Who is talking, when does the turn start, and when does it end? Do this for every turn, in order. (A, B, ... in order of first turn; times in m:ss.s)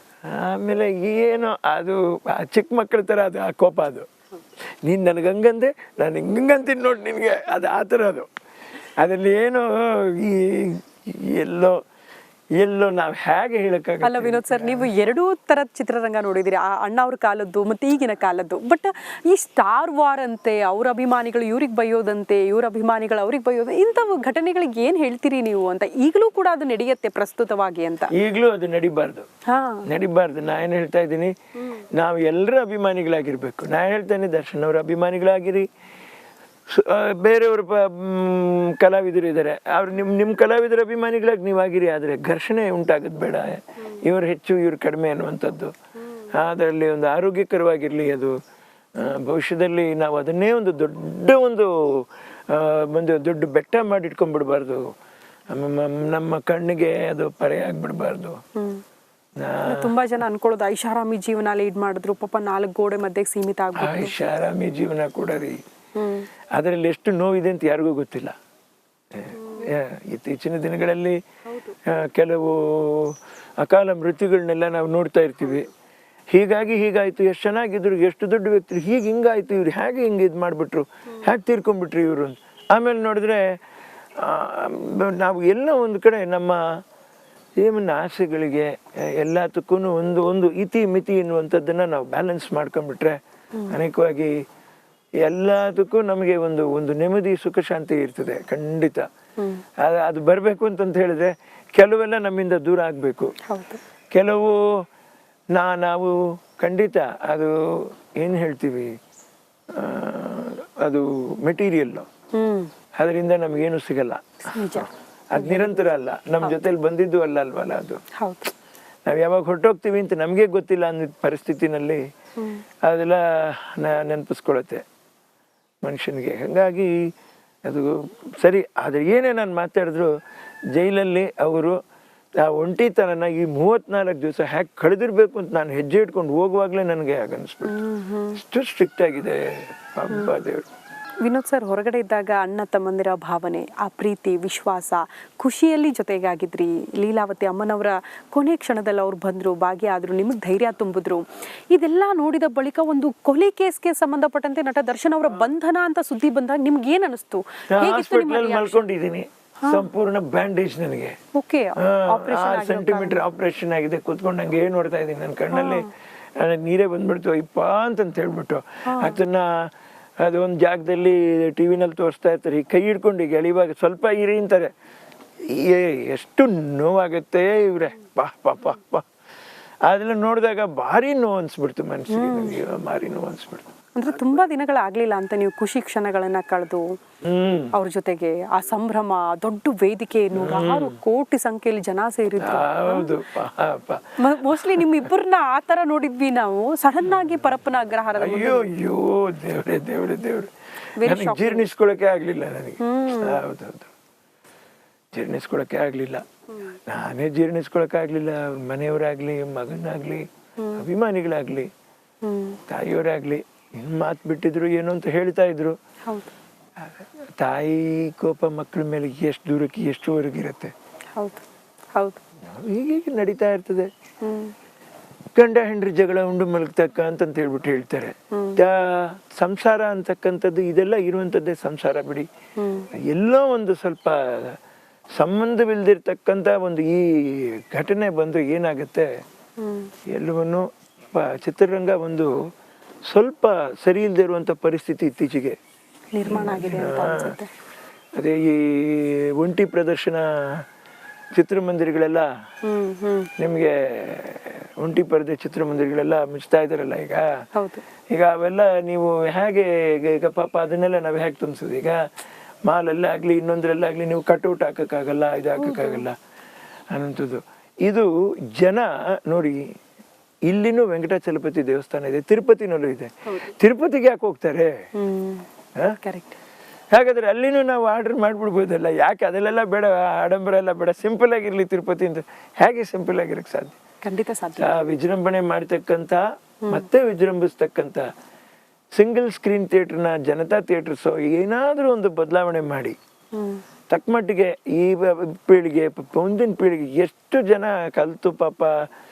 0:00.2-0:04.1 A
0:04.8-0:08.3 A
0:09.0-0:11.8 A
0:12.6-0:14.9 A
0:14.0-0:28.1 B
0:28.1-0:29.3 A
0:29.5-0:29.9 B
0:29.9-0:35.7 A
0:36.7-0:45.7 A
0:46.3-0:48.4 A
0:49.0-0:54.9 A
0:55.5-0:58.4 A
0:58.6-0:58.8 B
0:59.4-0:59.9 A
0:59.7-1:04.2 B
1:03.8-1:05.6 A
1:06.0-1:06.3 B
1:06.5-1:08.3 A
1:09.1-1:11.2 A
1:11.9-1:15.7 A
1:16.3-1:23.4 A
1:24.2-1:26.6 A
1:27.6-1:33.2 A
1:33.7-1:34.3 A
1:35.2-1:39.0 A
1:39.8-1:43.3 A
1:43.5-1:43.8 B
1:44.1-1:44.8 A
1:45.5-1:48.9 A
1:49.7-1:52.1 A
1:52.3-1:52.7 B
1:53.0-1:58.0 A
1:54.5-1:55.9 B
1:58.2-1:58.5 B
1:59.1-2:02.0 A
2:02.8-2:04.8 A
2:05.8-2:07.0 A
2:07.7-2:10.1 A
2:10.7-2:11.8 A
2:12.4-2:17.7 A
2:17.7-2:18.4 B
2:18.3-2:20.7 A
2:21.2-2:38.8 B
2:37.7-2:41.2 A
2:41.3-2:43.2 B
2:41.8-2:49.7 A
2:45.5-2:45.8 B
2:48.8-2:49.2 B
2:50.2-2:54.7 A
2:55.4-2:59.0 A
2:59.9-3:03.7 A
3:02.1-3:02.6 B
3:03.9-3:06.9 B
3:07.2-3:07.7 A
3:07.7-3:13.1 B
3:10.3-3:11.0 A
3:12.4-3:15.1 A
3:14.2-3:18.7 B
3:18.1-3:20.5 A
3:21.0-3:21.7 B
3:21.0-3:23.9 A
3:22.8-3:23.4 B
3:25.1-3:26.2 A
3:26.8-3:31.7 A
3:30.6-3:30.8 B
3:32.2-3:32.6 B
3:32.7-3:35.8 A
3:36.0-3:36.3 B
3:36.8-3:40.7 A
3:41.2-3:41.4 B
3:42.4-3:43.9 A
3:44.2-3:44.5 B
3:45.4-3:52.3 A
3:48.3-3:48.6 B
3:52.6-3:52.9 B
3:53.0-3:54.6 A
3:55.2-3:59.1 A
3:59.6-3:59.9 B
4:00.1-4:02.3 A
4:03.1-4:05.6 A
4:06.1-4:07.5 B
4:06.2-4:07.3 A
4:08.2-4:10.6 A
4:11.4-4:12.3 A
4:12.6-4:13.3 B
4:13.4-4:17.3 A
4:17.5-4:17.8 B
4:18.1-4:22.0 A
4:22.7-4:26.2 A
4:25.6-4:26.0 B
4:26.9-4:29.6 A
4:30.5-4:34.7 A
4:35.0-4:36.4 B
4:36.9-4:43.8 A
4:44.0-4:44.8 B
4:44.6-4:48.0 A
4:49.0-4:53.0 A
4:53.3-4:53.6 B
4:53.9-4:58.7 A